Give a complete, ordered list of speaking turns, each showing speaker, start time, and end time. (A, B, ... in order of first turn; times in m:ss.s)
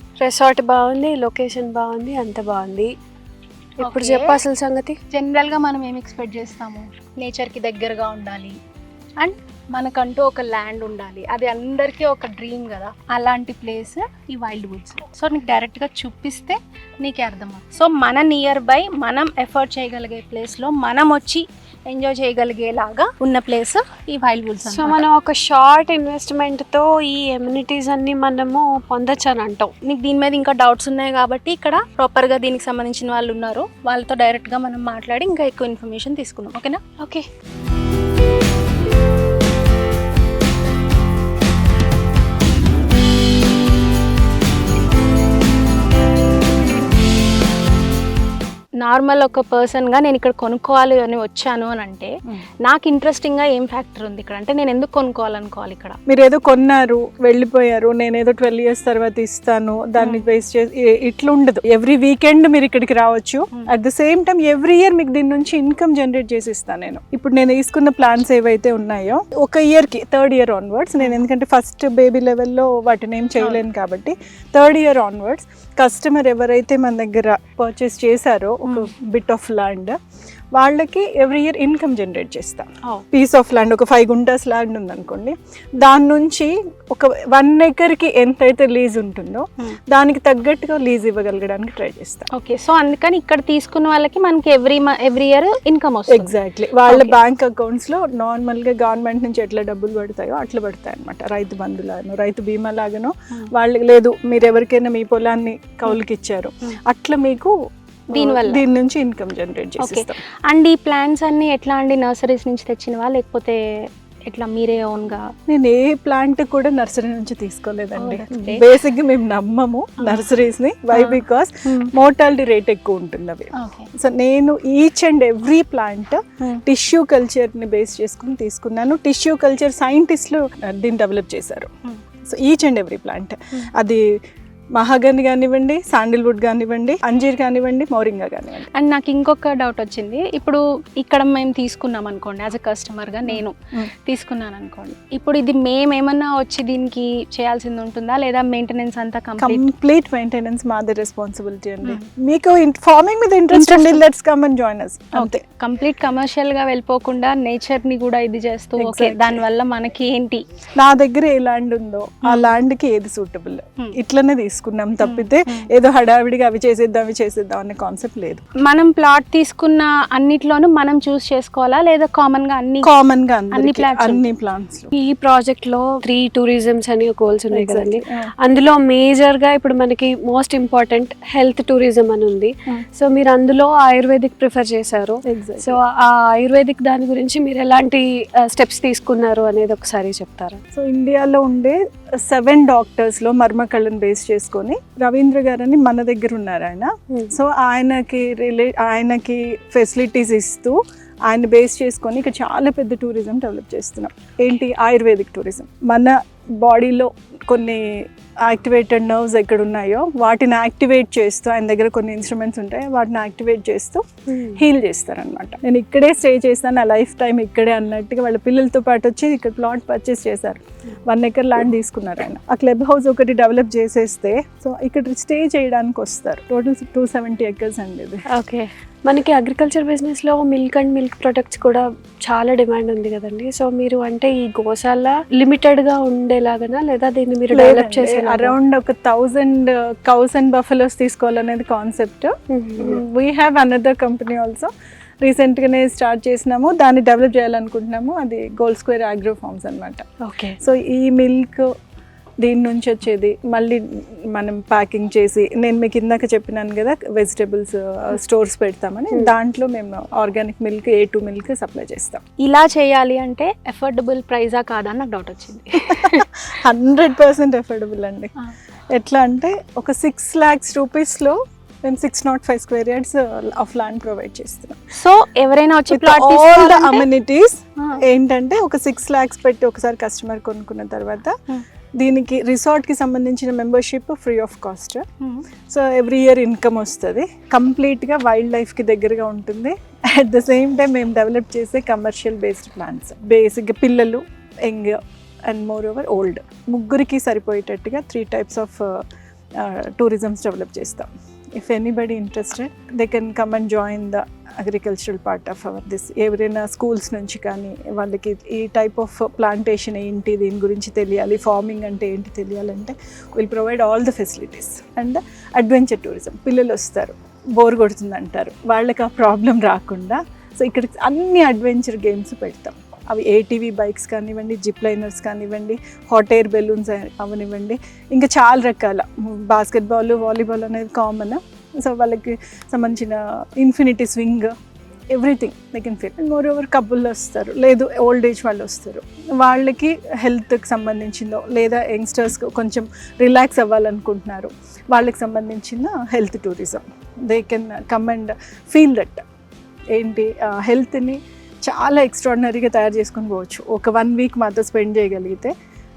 0:00.2-0:02.9 A
0:03.8-0:05.0 A
0:03.8-0:04.4 B
0:05.1-0:08.6 B
0:09.2-0:25.0 B
0:24.6-0:29.7 A
0:29.8-0:37.0 B
0:48.8-0:52.1 B
0:52.6-0:56.0 B
0:56.1-1:19.9 C
1:00.0-1:00.3 B
1:18.6-1:18.9 B
1:20.5-1:32.3 C
1:32.3-1:36.3 B
1:36.1-1:47.5 C
1:36.9-1:37.2 B
1:48.1-1:50.2 C
1:48.1-1:48.6 B
1:49.8-1:55.3 B
1:55.5-2:11.7 C
1:58.0-1:58.6 B
2:00.0-2:00.3 B
2:00.9-2:01.9 B
2:03.5-2:03.9 B
2:12.3-2:14.0 C
2:14.8-2:18.7 C
2:18.7-2:23.5 B
2:23.3-2:23.9 C
2:24.0-2:29.6 B
2:29.4-2:35.4 C
2:33.5-2:34.0 B
2:35.1-2:40.4 B
2:38.8-2:39.4 C
2:40.8-2:48.4 C
2:42.2-2:42.5 B
2:45.0-2:45.7 B
2:48.6-2:52.9 B
2:52.8-2:54.9 C
2:53.5-2:54.3 B
2:54.9-3:10.6 A
2:57.5-2:58.3 C
3:05.2-3:05.8 C
3:10.7-3:48.2 C
3:48.3-3:58.6 A
3:57.5-4:04.7 C
4:02.5-4:03.0 A
4:05.2-4:10.1 C
4:10.6-4:11.6 C
4:12.4-4:22.2 C
4:22.4-4:26.3 B
4:25.8-4:28.3 C
4:28.9-4:34.8 C
4:34.9-4:37.1 B
4:35.9-4:41.3 C
4:42.0-4:45.0 C
4:45.7-4:59.0 C
4:59.6-5:34.5 C
5:35.1-5:49.2 C
5:49.9-5:55.5 C